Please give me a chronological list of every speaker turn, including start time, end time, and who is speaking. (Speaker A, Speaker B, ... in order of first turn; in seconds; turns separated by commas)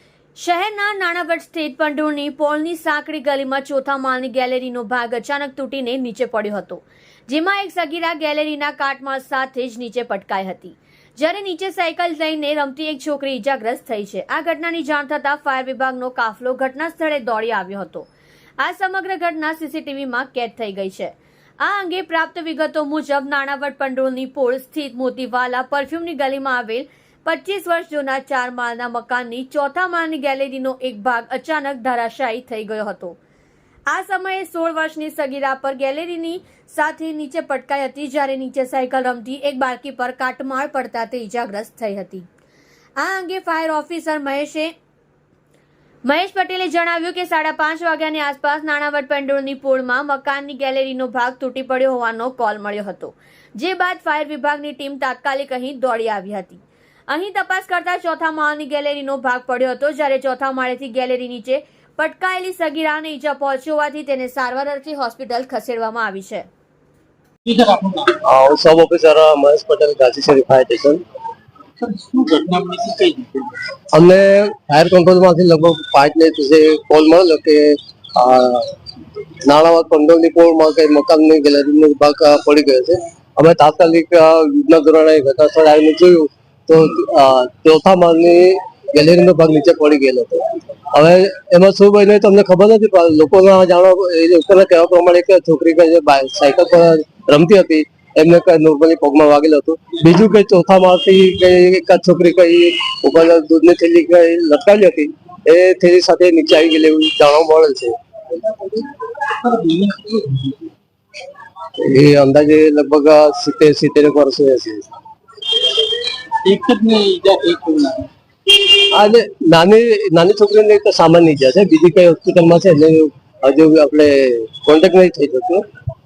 Speaker A: 0.4-18.1, Speaker A: 18.6-33.2, Speaker A: 33.9-42.2, Speaker A: 43.0-44.7, Speaker A: 46.0-66.5, Speaker B: 67.4-68.2, Speaker C: 68.2-71.0, Speaker B: 71.8-73.5, Speaker C: 73.9-78.7, Speaker C: 79.4-108.0, Speaker B: 108.8-110.6, Speaker C: 111.8-114.9, Speaker B: 116.4-118.1, Speaker C: 118.9-125.6